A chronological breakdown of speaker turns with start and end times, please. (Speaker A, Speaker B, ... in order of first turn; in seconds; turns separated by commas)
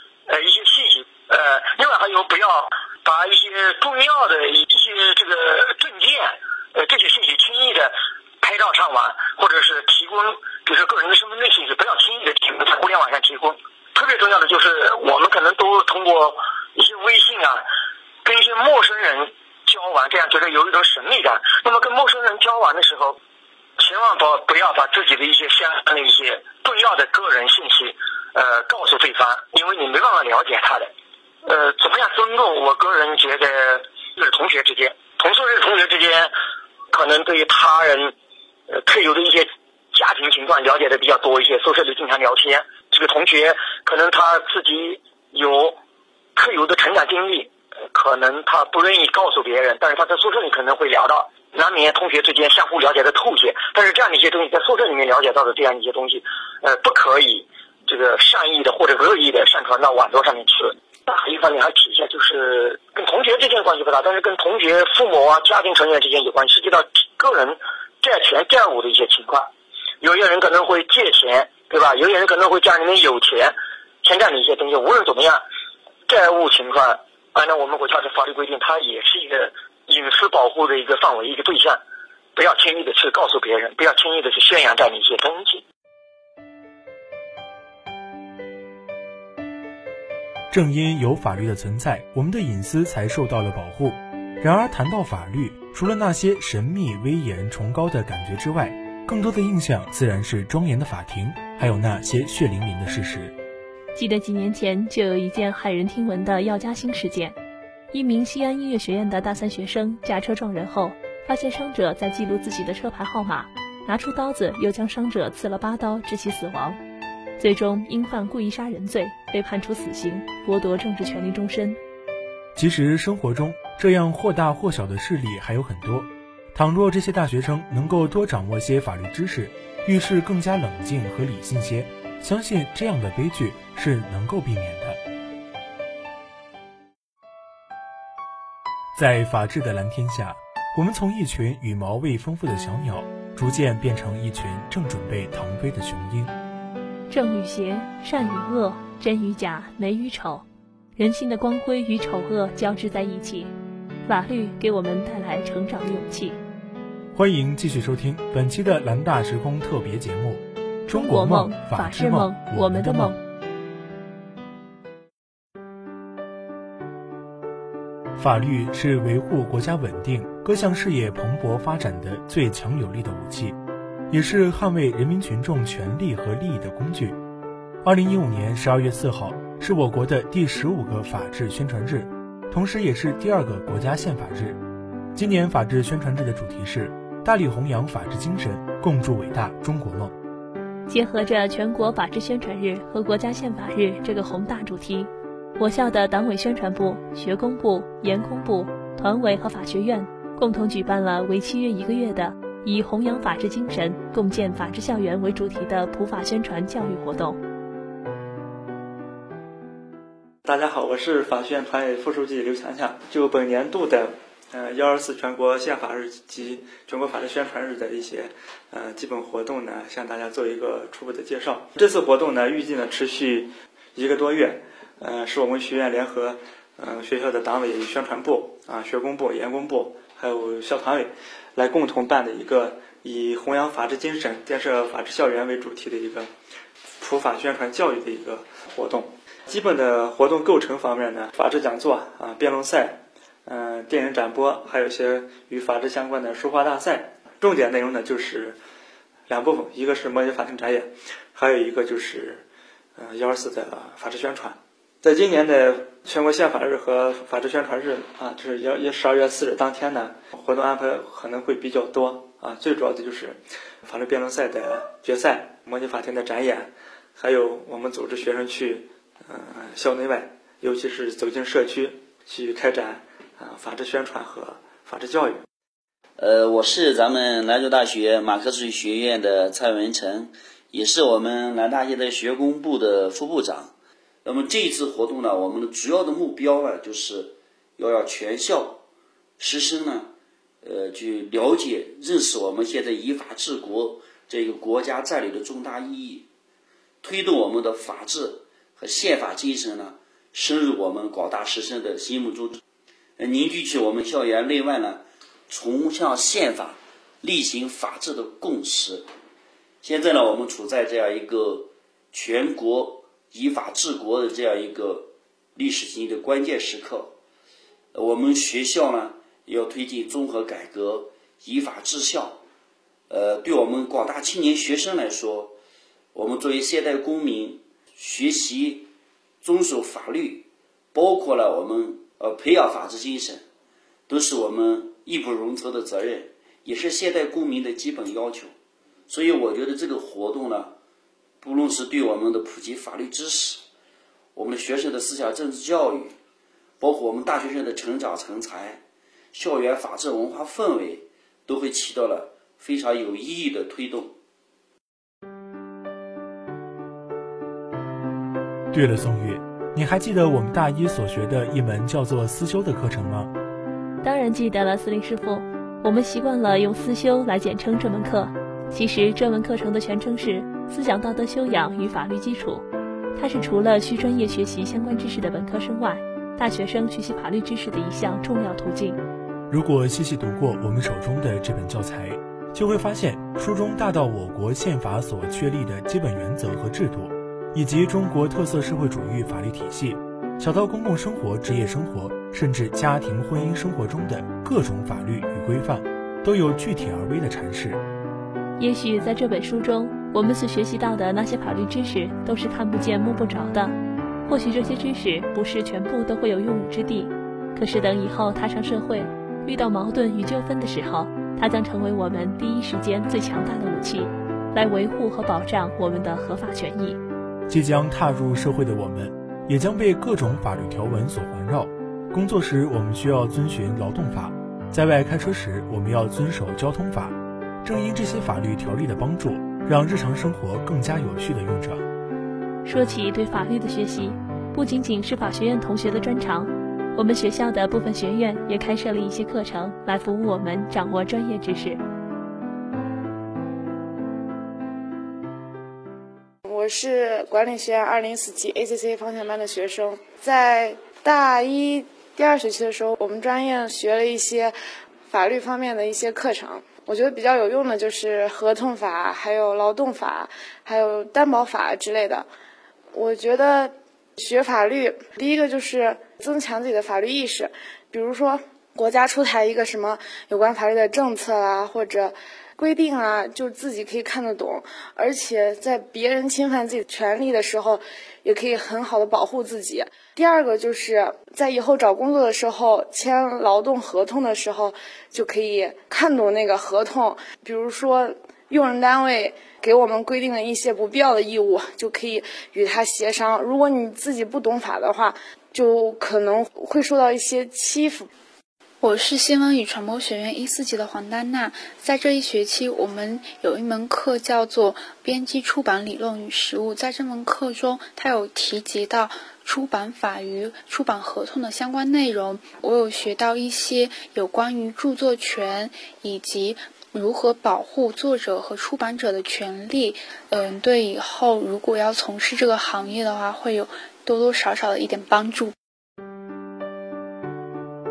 Speaker A: 0.3-17.6, Speaker A: 18.2-23.2, Speaker A: 23.8-30.9, Speaker A: 31.5-36.3, Speaker A: 36.9-38.1, Speaker A: 38.7-45.8, Speaker A: 46.4-69.5, Speaker A: 70.0-75.4, Speaker A: 76.1-81.8, Speaker A: 82.4-85.6, Speaker B: 90.5-103.3, Speaker C: 104.0-107.4, Speaker C: 107.9-116.8, Speaker C: 117.4-121.8, Speaker B: 122.5-135.0, Speaker B: 139.0-146.3, Speaker C: 147.1-150.4, Speaker C: 151.0-153.5, Speaker C: 154.1-156.4, Speaker B: 157.1-163.2, Speaker C: 160.9-163.2, Speaker B: 168.2-173.6, Speaker B: 174.1-177.2, Speaker B: 177.8-184.6, Speaker B: 185.1-190.1, Speaker C: 190.9-207.4, Speaker D: 210.4-236.3, Speaker D: 237.0-248.6, Speaker D: 249.3-252.4, Speaker D: 253.0-275.4, Speaker E: 276.2-283.7, Speaker E: 284.2-288.8, Speaker E: 289.4-290.1, Speaker E: 290.6-296.3, Speaker E: 297.0-302.6, Speaker E: 303.2-309.1, Speaker E: 309.8-317.2, Speaker E: 317.9-322.4, Speaker E: 323.1-325.6, Speaker E: 326.1-328.9, Speaker E: 329.4-333.4, Speaker E: 334.1-338.5, Speaker E: 339.1-340.8, Speaker E: 341.4-343.6, Speaker E: 344.4-346.1, Speaker E: 346.8-348.8, Speaker E: 349.3-354.1, Speaker B: 358.7-363.3, Speaker C: 364.0-379.0, Speaker B: 379.5-397.8, Speaker C: 398.6-403.8, Speaker C: 404.3-417.0, Speaker B: 417.5-431.8, Speaker C: 432.6-441.8, Speaker F: 446.4-454.5, Speaker F: 455.1-462.3, Speaker F: 462.9-498.1, Speaker G: 498.8-525.5